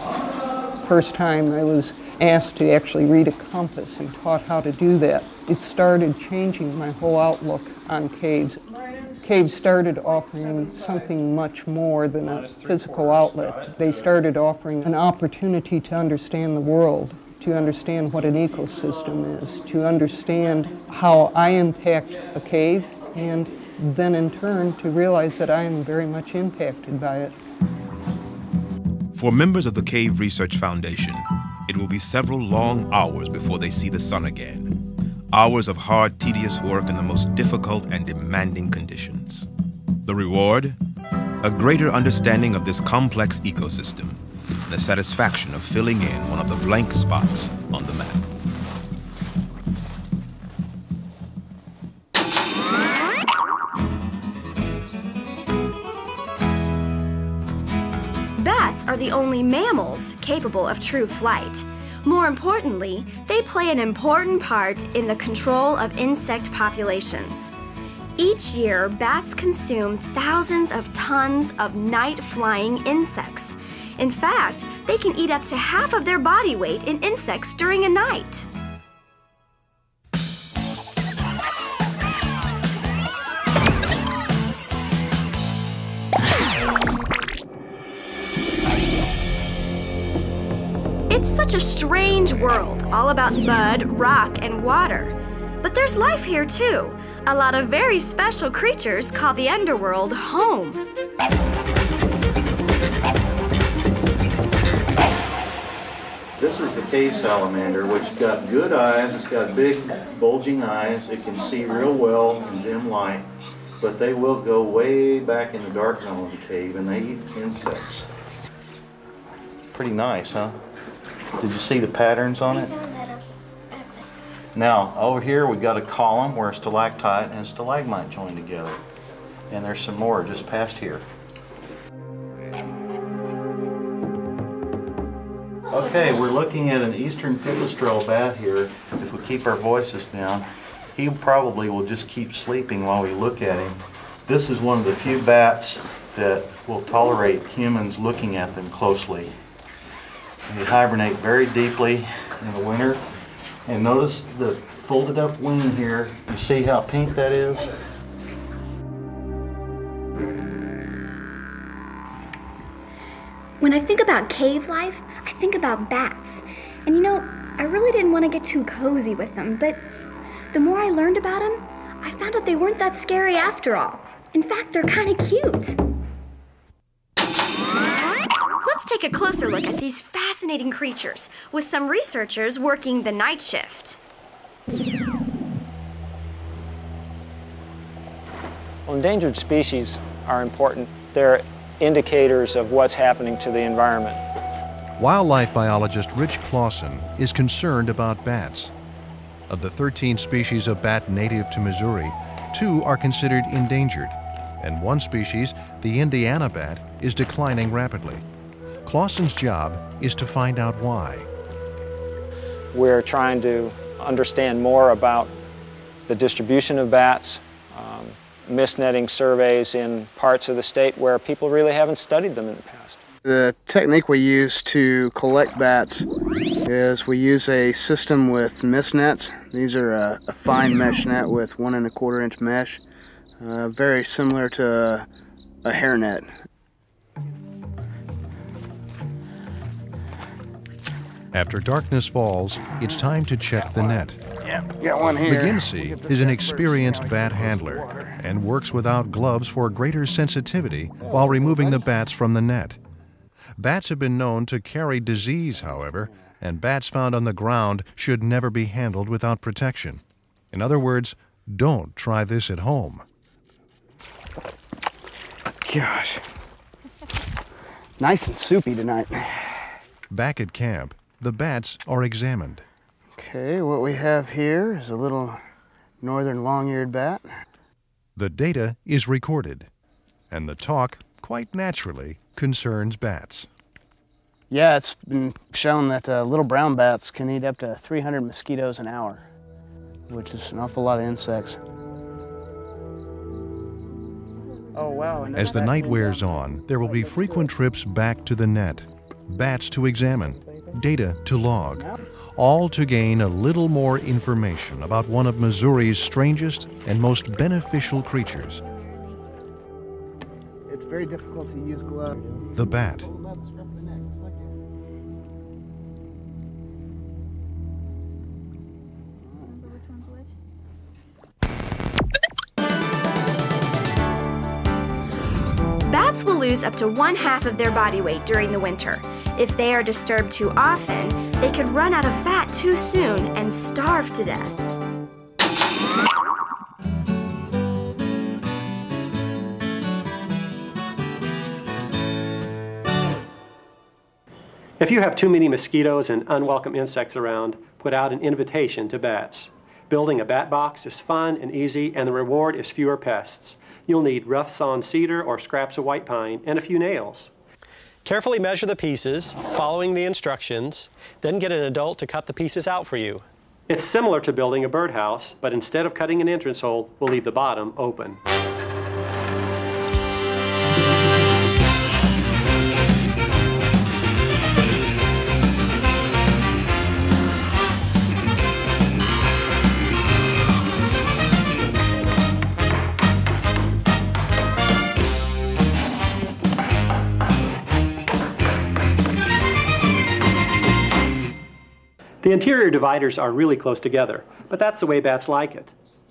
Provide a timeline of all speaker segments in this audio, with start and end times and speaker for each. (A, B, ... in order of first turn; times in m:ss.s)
0:00.8-0:27.3 A
0:29.1-0:34.8 B
0:35.3-0:39.5 B
0:40.0-0:40.8 B
0:41.4-0:48.2 B
0:58.4-1:07.5 C
1:08.2-1:18.5 C
1:31.1-1:40.8 C
1:46.4-1:53.2 D
1:53.8-1:58.1 D
1:59.7-2:00.6 D
2:01.4-2:02.8 D
2:04.5-2:08.8 D
2:09.5-2:11.0 D
2:15.7-2:29.3 D
2:30.4-2:33.0 D
2:33.6-2:37.7 D
2:43.6-2:49.9 E
2:50.5-2:55.8 E
2:58.6-3:04.0 C
3:08.9-3:14.2 F
3:15.0-3:18.7 G
3:19.5-3:28.2 G
3:28.8-3:31.3 G
3:32.7-3:35.3 F
3:36.1-3:43.0 F
3:43.2-3:46.0 H
3:46.6-3:52.8 H
3:53.4-3:55.1 H
3:55.6-3:56.3 H
4:01.3-4:04.2 G
4:02.7-4:03.0 H
4:04.4-4:08.2 H
4:05.2-4:12.8 G
4:11.0-4:11.8 H
4:13.6-4:23.0 G
4:25.6-4:26.2 H
4:28.0-4:29.6 H
4:30.1-4:32.6 G
4:33.2-4:35.4 H
4:36.0-4:37.2 H
4:38.2-4:39.7 G
4:40.3-4:43.5 G
4:44.5-4:49.2 H
4:50.1-4:51.6 H
4:54.7-4:57.5 H
4:55.3-5:08.6 G
5:10.7-5:14.3 H
5:12.5-5:13.1 G
5:19.2-5:19.5 H
5:25.8-5:34.6 C
5:44.8-5:57.3 I
5:58.0-6:08.2 I
6:32.2-6:35.7 I